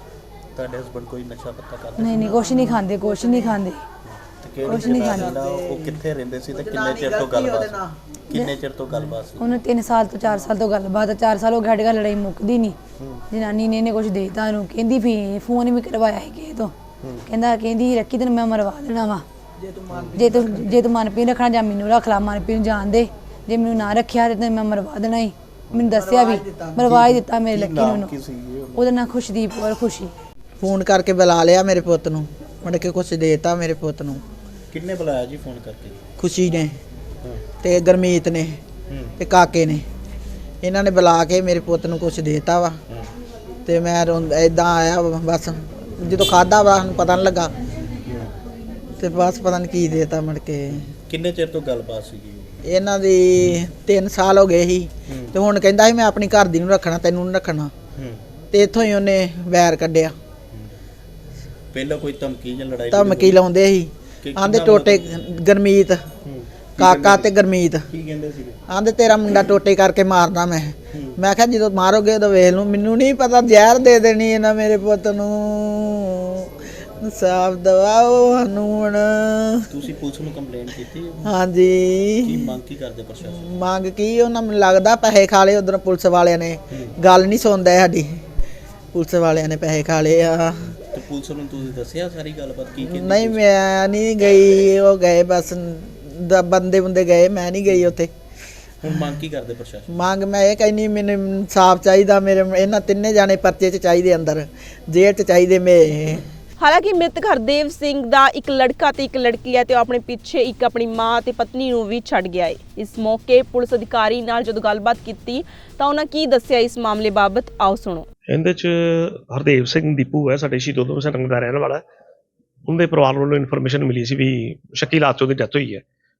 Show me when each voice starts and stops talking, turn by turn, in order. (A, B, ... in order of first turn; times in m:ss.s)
0:00.5-0:02.5 A
0:02.0-0:03.8 B
0:02.1-0:03.6 C
0:04.0-0:09.6 A
0:04.6-0:05.3 B
0:04.6-0:06.0 C
0:06.5-0:08.0 C
0:09.4-0:12.8 B
0:13.0-0:13.2 A
0:13.3-0:16.7 B
0:17.3-0:19.2 B
0:19.6-0:20.9 C
0:20.2-0:28.1 B
0:25.9-0:27.2 C
0:27.5-0:29.0 A
0:28.8-0:30.1 B
0:30.6-0:34.2 C
0:34.7-0:36.0 A
0:36.2-0:36.8 C
0:37.6-0:38.6 C
0:38.9-0:39.2 A
0:39.2-0:39.8 C
0:40.6-0:42.8 C
0:43.6-0:47.5 C
0:48.0-0:48.3 A
0:49.0-0:50.9 C
0:50.7-0:52.6 A
0:52.6-0:57.7 C
0:55.1-0:55.4 A
0:58.0-0:58.2 A
0:58.5-1:00.1 C
1:01.7-1:03.4 A
1:02.9-1:06.0 C
1:04.2-1:05.1 A
1:06.2-1:07.3 A
1:06.8-1:07.8 C
1:07.9-1:08.6 A
1:08.7-1:19.7 C
1:10.9-1:11.2 A
1:19.7-1:21.3 A
1:21.2-1:22.6 C
1:22.2-1:23.6 A
1:23.3-1:28.2 C
1:28.9-1:30.8 C
1:30.9-1:33.4 A
1:32.8-1:38.1 C
1:38.8-1:40.0 A
1:39.9-1:46.3 C
1:46.6-1:58.0 D
1:58.3-2:01.8 E
2:02.6-2:05.8 E